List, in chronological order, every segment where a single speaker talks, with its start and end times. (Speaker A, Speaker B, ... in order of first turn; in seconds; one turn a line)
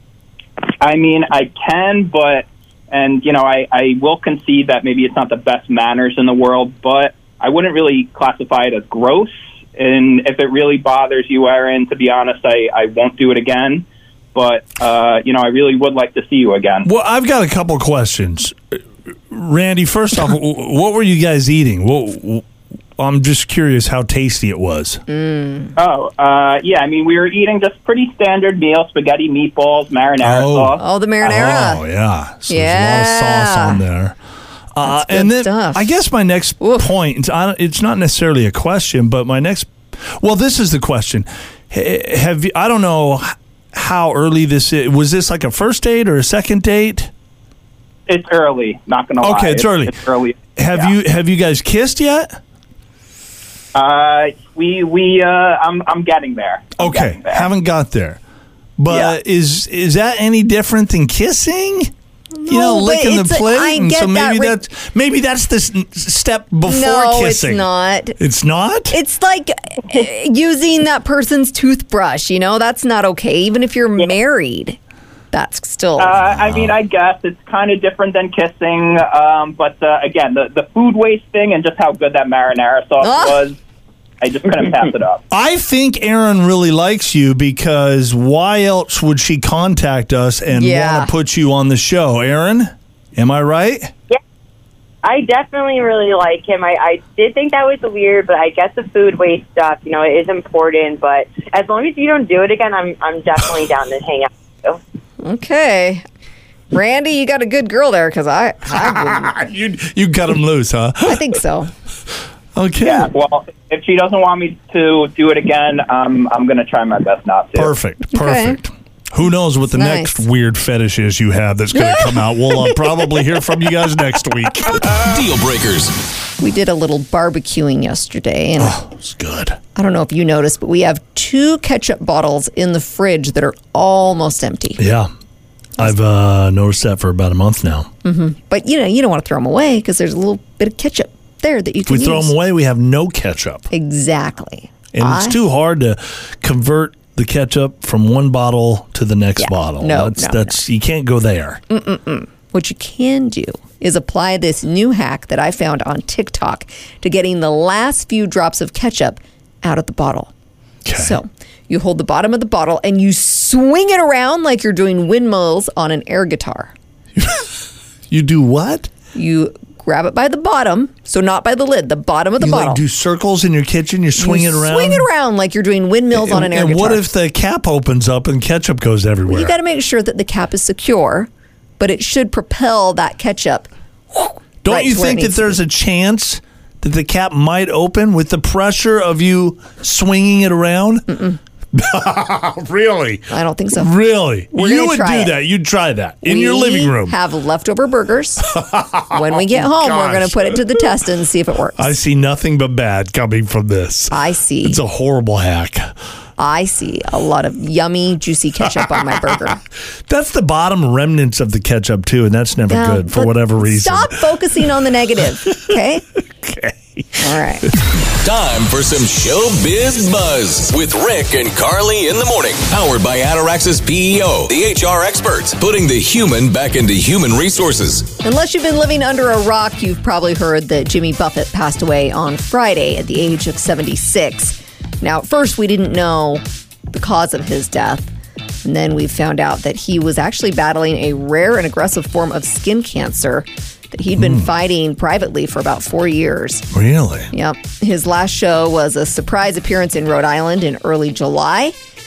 Speaker A: 0.8-16.9
Speaker B: 16.8-18.8
Speaker B: 19.3-22.4
Speaker B: 23.0-25.0
Speaker C: 25.1-25.7
Speaker A: 25.8-30.8
Speaker B: 30.2-34.2
Speaker C: 30.8-31.8
Speaker C: 32.5-33.8
Speaker B: 34.7-47.1
Speaker C: 34.8-35.8
Speaker C: 36.6-36.9
Speaker A: 48.1-50.9
Speaker B: 49.2-50.0
Speaker B: 50.5-52.4
Speaker A: 53.7-57.5
Speaker B: 56.8-58.2
Speaker B: 58.8-61.9
Speaker C: 58.9-59.1
Speaker C: 62.3-64.6
Speaker B: 62.5-67.7
Speaker C: 66.7-68.2
Speaker B: 68.2-69.0
Speaker C: 68.9-74.8
Speaker C: 75.3-76.1
Speaker A: 76.0-83.6
Speaker C: 83.0-83.4
Speaker A: 84.2-85.2
Speaker B: 85.3-93.9
Speaker C: 90.5-91.1
Speaker D: 95.0-104.8
Speaker C: 105.2-106.0
Speaker C: 106.7-109.3
Speaker B: 108.7-111.4
Speaker C: 111.0-111.7
Speaker B: 112.5-113.1
Speaker A: 112.8-117.7
Speaker B: 117.5-125.0
Speaker C: 118.1-118.6
Speaker C: 119.7-120.2
Speaker C: 121.7-122.7
Speaker E: 124.9-126.0
Speaker C: 126.4-128.8
Speaker B: 128.6-129.6
Speaker C: 129.7-134.8
Speaker B: 134.8-135.1
Speaker B: 135.8-137.9
Speaker C: 138.0-142.3
Speaker B: 141.9-143.7
Speaker C: 143.7-145.4
Speaker B: 144.9-151.6
Speaker C: 149.4-150.6
Speaker C: 151.7-160.3
Speaker B: 160.8-161.2
Speaker C: 160.9-166.7
Speaker B: 167.2-167.5
Speaker B: 168.1-168.9
Speaker C: 169.1-172.8
Speaker B: 172.4-175.1
Speaker C: 174.2-177.0
Speaker B: 176.1-179.5
Speaker C: 179.3-185.6
Speaker B: 184.6-191.2
Speaker C: 191.1-191.4
Speaker B: 191.7-197.2
Speaker C: 193.3-193.9
Speaker C: 194.5-195.4
Speaker C: 196.2-198.5
Speaker B: 198.4-200.8
Speaker C: 199.1-201.9
Speaker B: 201.8-205.9
Speaker C: 204.1-204.8
Speaker C: 206.4-209.6
Speaker B: 210.1-214.3
Speaker C: 212.7-216.0
Speaker B: 216.4-217.7
Speaker C: 217.2-217.7
Speaker E: 218.2-228.1
Speaker C: 228.2-238.1
Speaker C: 238.6-246.7
Speaker B: 244.2-244.5
Speaker B: 246.7-247.3
Speaker C: 247.3-251.7